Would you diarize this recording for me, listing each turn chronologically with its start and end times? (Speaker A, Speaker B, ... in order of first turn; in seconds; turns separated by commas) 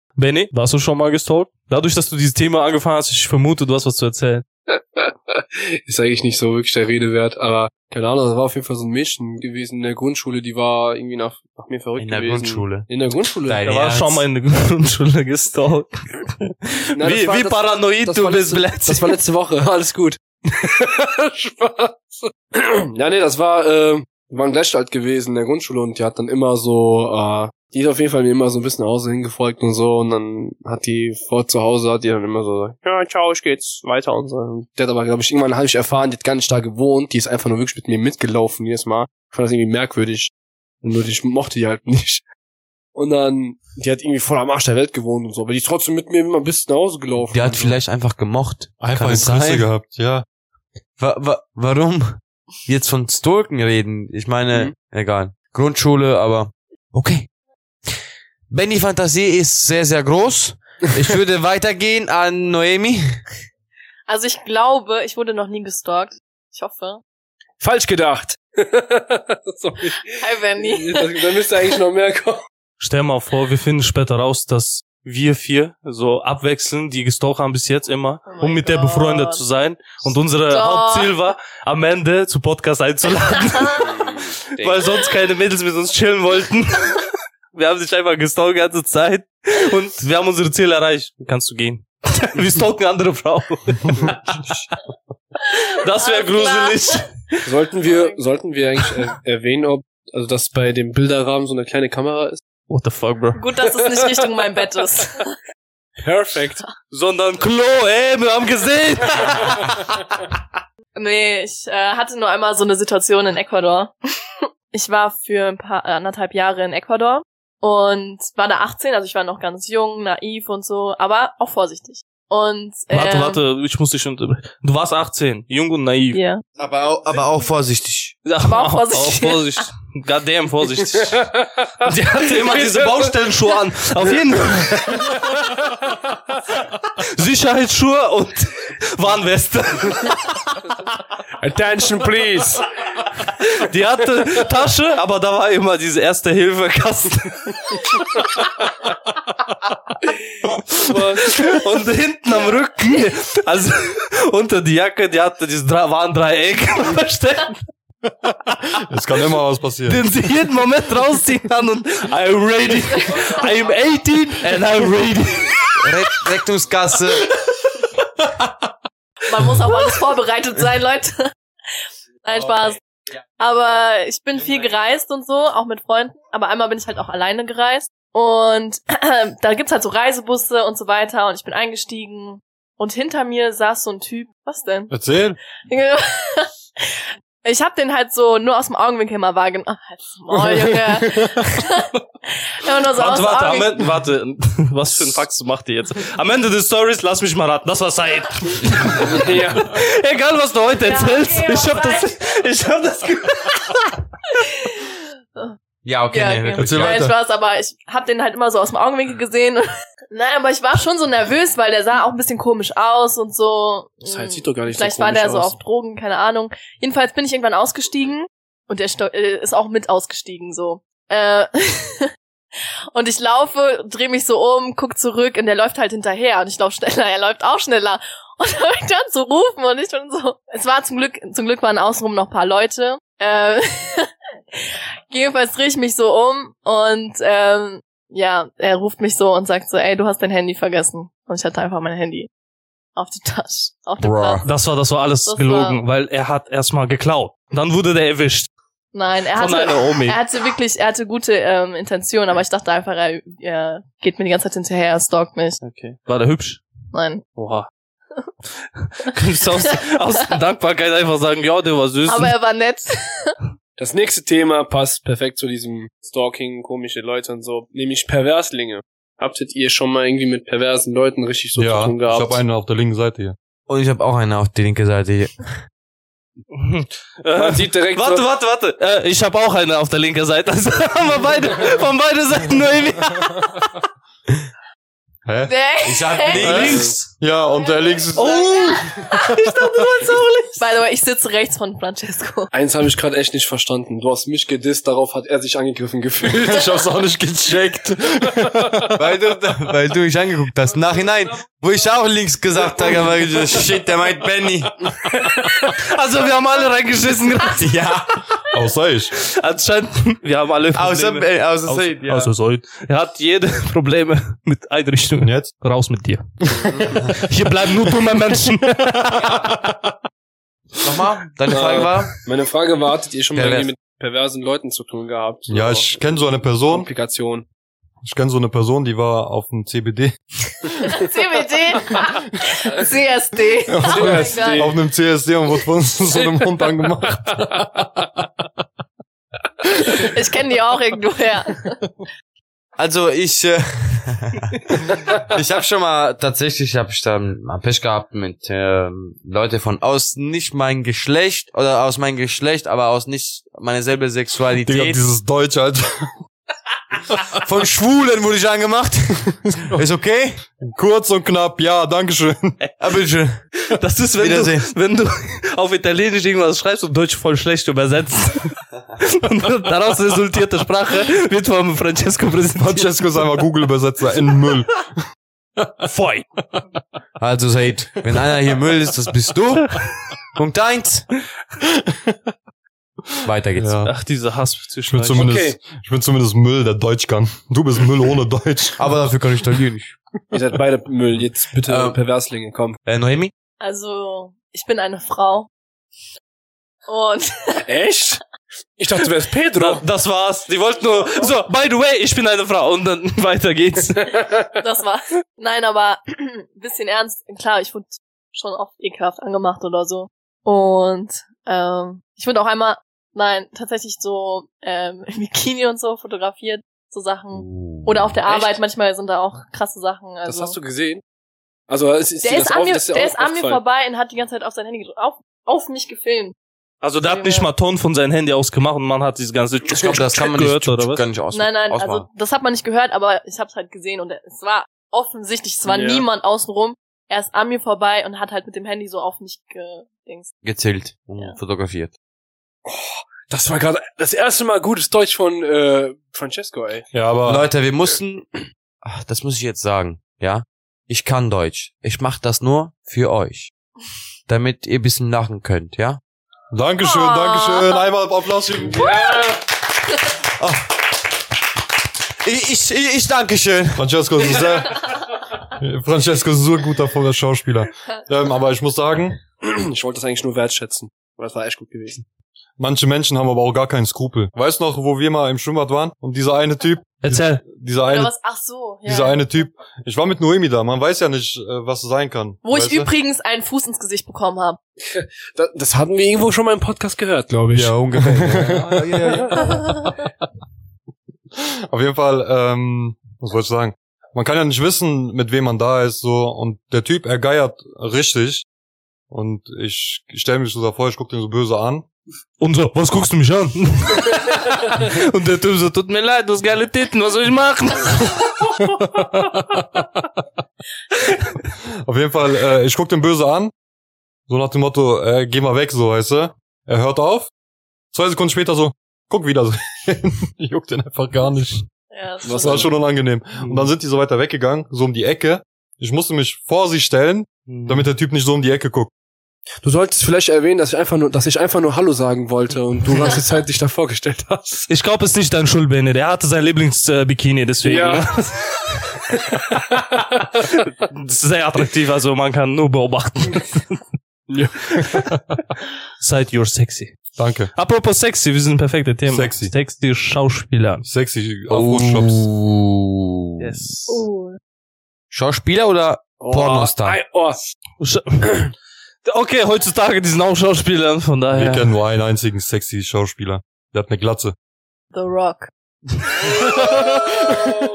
Speaker A: 0.2-4.4, Speaker B: 4.7-13.6, Speaker C: 12.0-12.9, Speaker C: 13.4-14.2, Speaker A: 13.6-19.2, Speaker B: 16.9-42.2, Speaker B: 43.0-47.8, Speaker C: 47.3-49.7, Speaker D: 48.8-50.2, Speaker C: 51.0-57.3, Speaker C: 58.5-63.2, Speaker E: 64.1-67.0, Speaker B: 67.6-72.5, Speaker E: 70.2-71.4, Speaker A: 72.8-94.4, Speaker E: 78.3-79.4, Speaker E: 80.5-81.2, Speaker E: 83.5-83.9, Speaker B: 83.9-84.8, Speaker A: 95.5-97.5, Speaker E: 95.5-97.1, Speaker B: 97.4-102.4, Speaker E: 97.8-98.2, Speaker A: 102.7-103.4, Speaker E: 103.4-105.3, Speaker B: 103.6-104.3, Speaker B: 106.0-106.6, Speaker A: 106.9-109.9, Speaker E: 111.0-114.0, Speaker E: 114.7-123.4, Speaker A: 122.9-126.2, Speaker E: 126.1-126.4, Speaker C: 126.6-128.2, Speaker A: 128.3-131.3, Speaker E: 128.4-129.7, Speaker B: 131.0-131.9, Speaker A: 131.8-135.3, Speaker B: 132.4-133.2, Speaker A: 137.0-140.6, Speaker B: 141.4-142.7, Speaker A: 143.5-147.9, Speaker B: 150.7-151.5, Speaker A: 151.2-157.6, Speaker D: 158.7-160.0, Speaker A: 159.9-165.7, Speaker C: 165.8-167.3, Speaker E: 169.3-171.3, Speaker E: 172.2-172.8, Speaker E: 173.4-184.9, Speaker D: 184.9-185.4, Speaker E: 185.7-193.8, Speaker D: 190.3-191.5, Speaker A: 192.9-204.0, Speaker B: 199.1-199.8, Speaker E: 200.8-202.4, Speaker E: 204.3-205.6, Speaker C: 205.8-207.1, Speaker E: 206.1-222.1, Speaker D: 206.6-207.1, Speaker B: 214.1-215.6, Speaker E: 222.9-242.3, Speaker E: 243.0-244.5, Speaker D: 244.0-244.4, Speaker A: 244.4-248.5, Speaker E: 245.3-245.8, Speaker E: 248.9-255.6, Speaker A: 249.3-250.2, Speaker A: 255.6-256.6, Speaker E: 256.9-257.2, Speaker A: 257.4-257.7, Speaker A: 258.8-262.3, Speaker E: 262.1-263.4, Speaker B: 263.8-272.4, Speaker D: 271.6-273.4, Speaker C: 273.7-275.5, Speaker A: 276.5-283.7, Speaker B: 277.4-278.3, Speaker D: 285.3-285.5, Speaker E: 285.5-286.9, Speaker C: 285.8-287.1, Speaker D: 286.3-289.6, Speaker B: 286.4-286.9, Speaker E: 287.6-292.5, Speaker A: 288.1-290.4, Speaker B: 292.5-296.7, Speaker D: 296.3-298.9, Speaker C: 299.0-304.9, Speaker A: 305.6-307.8, Speaker C: 307.5-308.2, Speaker D: 308.5-309.1, Speaker A: 309.2-316.2, Speaker C: 310.7-312.3, Speaker D: 315.2-315.5, Speaker D: 316.4-317.1, Speaker A: 317.1-319.4, Speaker D: 318.8-319.9, Speaker C: 320.8-322.1, Speaker B: 321.5-327.5, Speaker C: 323.4-323.7, Speaker D: 325.5-326.9, Speaker D: 328.0-330.7, Speaker E: 330.8-334.7, Speaker D: 333.7-338.1, Speaker B: 333.8-334.7, Speaker E: 339.8-341.8, Speaker C: 342.8-355.1, Speaker D: 354.6-356.2, Speaker C: 357.3-360.4, Speaker D: 360.6-362.6, Speaker C: 362.8-363.4, Speaker A: 363.7-373.1, Speaker C: 364.2-364.7, Speaker D: 372.6-374.9, Speaker A: 375.9-376.3, Speaker C: 377.2-379.8, Speaker C: 380.3-381.1, Speaker D: 381.8-382.2, Speaker C: 383.2-383.8, Speaker D: 383.6-383.9, Speaker A: 383.9-385.3, Speaker D: 384.9-388.8, Speaker B: 385.1-385.6, Speaker C: 388.8-390.0, Speaker B: 390.3-392.8, Speaker C: 391.7-392.0, Speaker C: 392.9-393.3, Speaker E: 393.6-395.5, Speaker E: 396.9-397.6, Speaker B: 397.7-398.2, Speaker B: 398.8-399.8, Speaker A: 399.6-404.2, Speaker E: 404.6-420.6, Speaker C: 417.5-417.9, Speaker B: 420.3-421.0, Speaker B: 421.7-423.6, Speaker E: 422.2-426.4, Speaker A: 426.8-431.0, Speaker E: 427.0-427.5, Speaker C: 429.7-432.1, Speaker E: 431.3-440.3, Speaker B: 435.6-436.1, Speaker C: 440.4-441.9, Speaker B: 442.7-446.9, Speaker D: 446.9-447.5, Speaker C: 447.2-448.3, Speaker C: 448.8-453.5, Speaker C: 454.3-456.0, Speaker D: 456.5-458.9, Speaker E: 456.8-457.8, Speaker B: 458.6-459.4, Speaker C: 460.4-460.7, Speaker C: 462.2-463.9, Speaker D: 463.8-464.9, Speaker D: 465.5-469.2, Speaker B: 469.4-472.0, Speaker D: 472.6-478.1, Speaker A: 477.0-477.4, Speaker E: 477.9-479.5, Speaker D: 478.9-482.9, Speaker E: 482.4-484.6, Speaker B: 484.9-489.5, Speaker D: 487.5-489.2, Speaker A: 488.5-489.6, Speaker E: 489.6-489.9, Speaker D: 491.4-498.5, Speaker D: 499.1-501.9, Speaker A: 502.4-508.5, Speaker D: 508.6-509.9, Speaker D: 511.9-513.5, Speaker D: 514.3-517.3, Speaker D: 517.9-521.7, Speaker E: 521.9-522.7, Speaker B: 522.2-522.7, Speaker D: 522.3-528.9, Speaker A: 523.4-523.7, Speaker A: 527.5-527.9, Speaker B: 529.6-534.7, Speaker A: 534.7-538.4, Speaker B: 537.6-538.3, Speaker B: 539.1-540.0, Speaker A: 540.5-543.8, Speaker B: 544.3-545.1, Speaker A: 546.0-547.0, Speaker D: 547.2-547.5, Speaker A: 547.5-550.9, Speaker D: 549.1-549.5, Speaker D: 550.8-552.3, Speaker C: 551.5-553.4, Speaker A: 553.4-554.0, Speaker E: 553.9-554.4, Speaker C: 555.1-557.0, Speaker B: 556.2-557.6, Speaker A: 557.8-558.5, Speaker A: 559.0-561.7, Speaker D: 561.3-564.4, Speaker E: 564.9-565.5, Speaker A: 566.2-567.4, Speaker D: 566.3-567.5